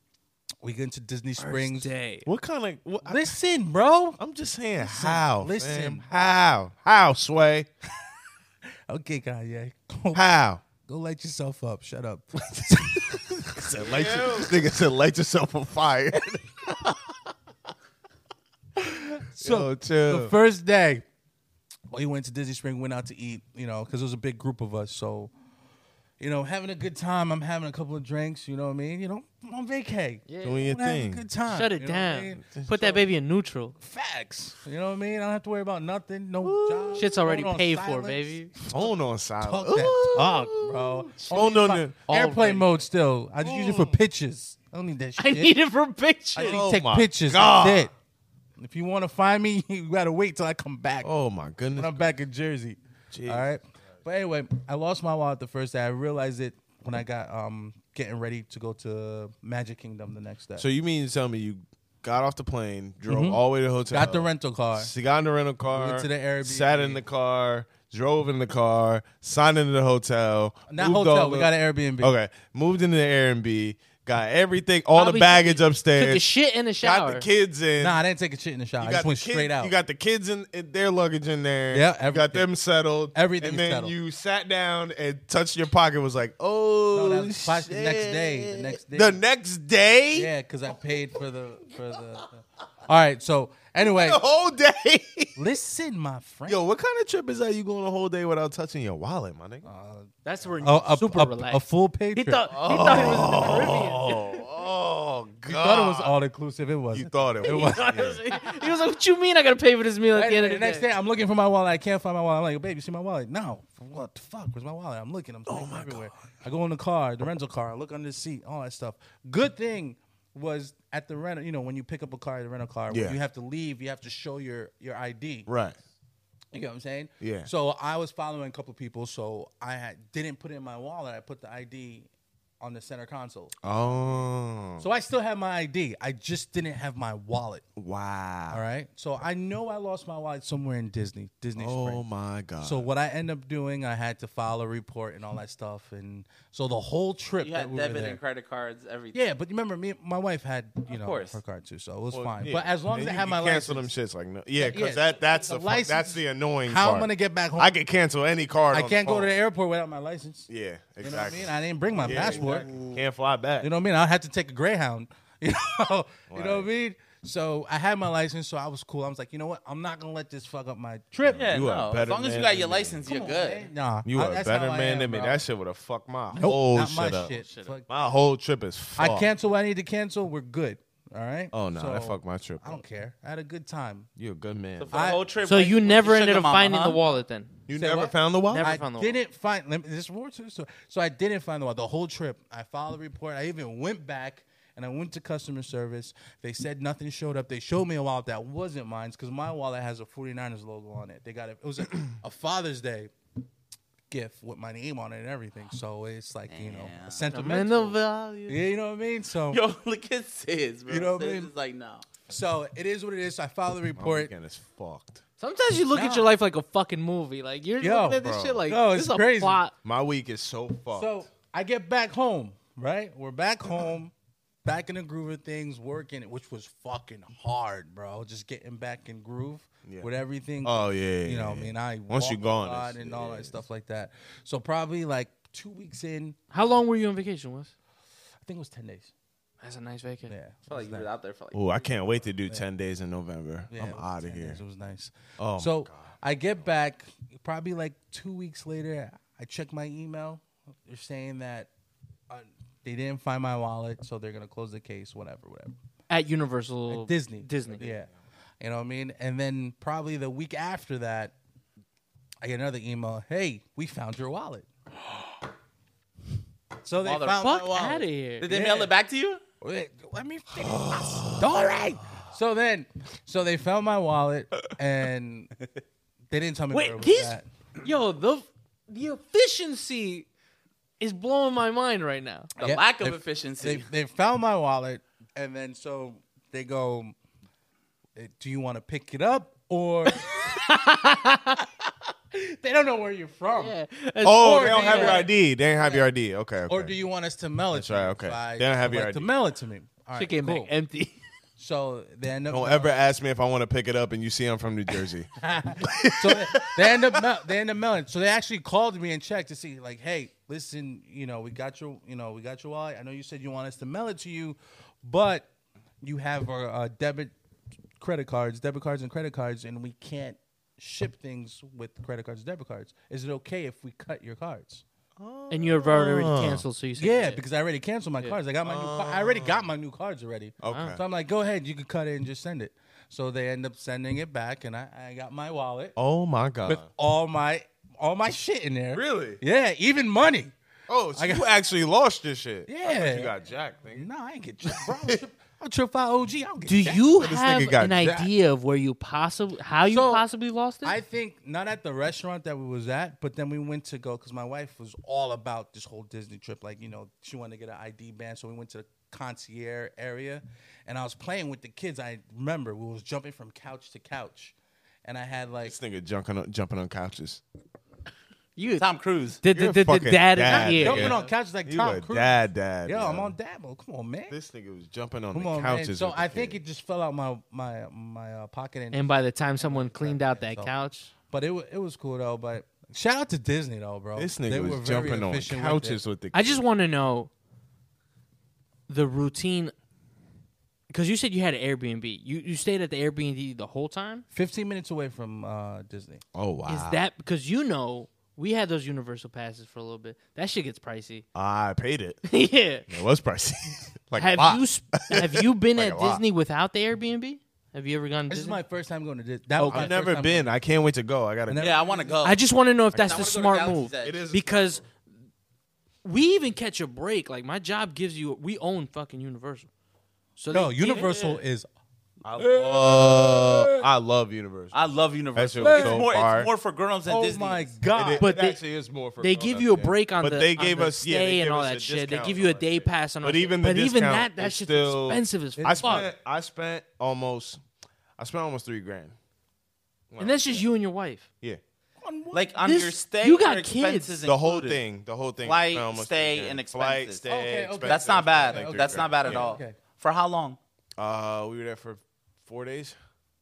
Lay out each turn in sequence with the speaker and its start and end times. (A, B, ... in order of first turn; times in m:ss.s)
0:00.6-0:01.9 A
0:01.4-0:02.3 B
0:02.2-0:03.4 C
0:03.0-0:04.2 A
0:04.2-0:07.7 C
0:04.8-0:06.1 A
0:08.9-0:10.2 A
0:10.1-0:10.6 C
0:10.8-0:14.6 A
0:13.6-0:16.8 C
0:18.8-0:21.0 A
0:19.4-0:20.4 C
0:21.9-0:25.3 A
0:26.2-0:33.0 A
0:30.3-0:30.7 B
0:30.4-0:31.2 C
0:31.5-0:33.8 B
0:33.8-0:38.9 A
0:36.4-0:37.1 C
0:37.0-0:38.5 B
0:38.6-0:42.1 C
0:39.4-0:45.6 A
0:42.1-0:42.8 B
0:43.4-0:44.0 C
0:45.2-0:46.6 B
0:46.4-0:47.9 A
0:46.4-0:47.9 C
0:48.6-0:51.1 A
0:51.0-0:52.1 C
0:51.8-1:00.7 A
0:53.1-0:53.5 C
1:00.6-1:16.3 C
1:03.1-1:04.9 A
1:05.7-1:07.0 A
1:10.7-1:12.1 A
1:15.0-1:17.3 B
1:16.8-1:18.0 C
1:17.8-1:19.7 A
1:18.8-1:31.0 C
1:21.7-1:22.5 A
1:23.1-1:23.9 A
1:26.9-1:29.2 A
1:30.1-1:34.2 A
1:33.8-1:35.4 C
1:35.4-1:36.6 A
1:36.5-1:39.7 C
1:39.6-1:43.5 A
1:40.2-1:41.6 B
1:42.2-1:44.2 B
1:42.5-1:46.2 C
1:45.5-1:48.1 A
1:46.9-1:48.2 C
1:47.4-1:50.9 B
1:50.2-2:05.5 A
1:55.5-1:56.1 C
2:02.9-2:03.2 C
2:05.5-2:05.8 C
2:06.5-2:12.1 A
2:07.2-2:07.5 C
2:12.6-2:13.5 A
2:13.6-2:14.9 C
2:14.8-2:17.6 A
2:17.8-2:18.6 C
2:18.5-2:22.0 A
2:21.6-2:22.9 C
2:22.6-2:28.2 A
2:27.4-2:29.2 D
2:29.1-2:33.9 A
2:30.9-2:31.4 D
2:32.1-2:39.4 C
2:34.6-2:37.7 A
2:38.7-2:40.5 A
2:40.5-2:43.7 C
2:41.0-2:42.8 A
2:42.1-2:43.0 D
2:43.6-2:51.5 A
2:46.3-2:46.7 C
2:51.2-2:53.0 C
2:51.3-2:53.7 D
2:53.1-2:55.4 A
2:54.0-2:57.3 C
2:56.3-2:57.9 A
2:57.1-2:57.7 B
2:57.9-2:59.3 C
2:59.0-3:04.1 A
3:01.5-3:02.8 C
3:04.2-3:05.0 C
3:04.8-3:07.0 D
3:04.9-3:05.2 A
3:05.4-3:07.5 B
3:07.7-3:08.7 C
3:07.7-3:23.1 A
3:08.5-3:09.2 B
3:24.1-3:29.6 A
3:26.5-3:27.7 D
3:27.3-3:28.6 B
3:29.5-3:32.0 D
3:30.9-3:31.5 A
3:32.3-3:34.3 A
3:34.0-3:35.2 C
3:35.4-3:39.7 B
3:35.9-3:36.3 A
3:37.8-3:39.6 A
3:38.2-3:38.6 C
3:39.8-3:41.2 C
3:40.9-3:44.1 A
3:44.6-3:56.4 A
3:49.8-3:50.1 C
3:50.6-3:53.6 C
3:56.5-3:57.7 B
3:58.4-3:59.1 A
3:59.6-4:00.4 B
4:00.3-4:01.1 A
4:00.7-4:01.8 D
4:01.5-4:04.6 C
4:03.7-4:11.7 A
4:05.4-4:06.1 C
4:12.3-4:15.8 A
4:16.1-4:17.9 B
4:16.9-4:18.1 A
4:18.6-4:21.3 A
4:22.4-4:24.7 A
4:26.8-4:28.9 A
4:27.0-4:27.5 D
4:27.4-4:28.5 B
4:28.4-4:29.4 D
4:29.6-4:35.5 A
4:30.6-4:31.6 C
4:36.3-4:37.5 A
4:36.7-4:40.3 B
4:41.0-4:42.5 B
4:42.6-4:43.9 D
4:42.6-4:47.2 A
4:48.2-4:50.5 A
4:50.2-4:51.6 B
4:52.3-4:53.8 A
4:53.5-4:55.3 B
4:54.2-4:57.0 C
4:54.3-4:55.3 A
4:56.7-5:00.7 A
4:57.7-4:59.3 C
5:00.2-5:01.2 B
5:01.6-5:02.9 A
5:02.5-5:05.3 C
5:05.4-5:15.5 A
5:05.8-5:07.2 C
5:16.0-5:17.3 A
5:18.0-5:24.8 A
5:25.2-5:26.6 C
5:25.5-5:27.4 B
5:27.0-5:36.0 A
5:28.6-5:29.7 C
5:30.6-5:31.0 C
5:30.7-5:31.0 B
5:36.0-5:36.9 C
5:36.7-5:40.5 A
5:38.9-5:39.4 C
5:40.9-5:44.1 C
5:41.2-5:41.5 A
5:42.7-5:43.3 A
5:43.9-5:47.1 A
5:44.7-5:45.2 C
5:46.7-5:51.0 B
5:47.2-5:48.3 C
5:49.8-5:50.3 A
5:50.8-6:05.8 A
6:05.6-6:07.4 C
6:08.6-6:08.9 B
6:08.8-6:09.4 D
6:09.4-6:11.2 B
6:09.5-6:13.4 C
6:10.5-6:14.4 A
6:14.3-6:16.6 C
6:15.3-6:20.7 A
6:18.9-6:21.1 B
6:21.3-6:26.0 A
6:24.2-6:26.6 C
6:26.3-6:27.3 B
6:28.9-6:29.7 B
6:30.9-6:34.2 B
6:34.3-6:36.2 A
6:36.3-6:37.0 C
6:36.7-6:41.2 B
6:41.4-6:42.2 C
6:42.3-6:42.9 B
6:42.9-6:46.2 C
6:44.2-6:48.6 B
6:48.3-6:50.5 A
6:49.6-6:49.9 B
6:49.6-6:51.7 C
6:51.5-6:52.2 A
6:51.6-6:52.4 D
6:52.2-6:54.8 B
6:52.9-6:54.2 D
6:54.0-6:54.8 C
6:56.0-6:59.7 B
7:00.4-7:01.4 B
7:00.5-7:01.7 A
7:02.2-7:04.8 C
7:02.4-7:03.9 A
7:04.7-7:07.8 D
7:05.3-7:06.5 C
7:05.6-7:06.0 A
7:07.1-7:08.3 A
7:07.9-7:17.6 C
7:08.2-7:08.6 B
7:09.2-7:16.1 B
7:15.6-7:16.1 A
7:18.2-7:19.2 C
7:20.1-7:20.7 C
7:20.2-7:21.2 B
7:22.0-7:22.6 A
7:22.3-7:24.8 D
7:22.6-7:24.2 B
7:24.2-7:29.6 C
7:25.4-7:27.2 D
7:27.3-7:29.8 A
7:27.8-7:30.6 D
7:31.0-7:33.0 C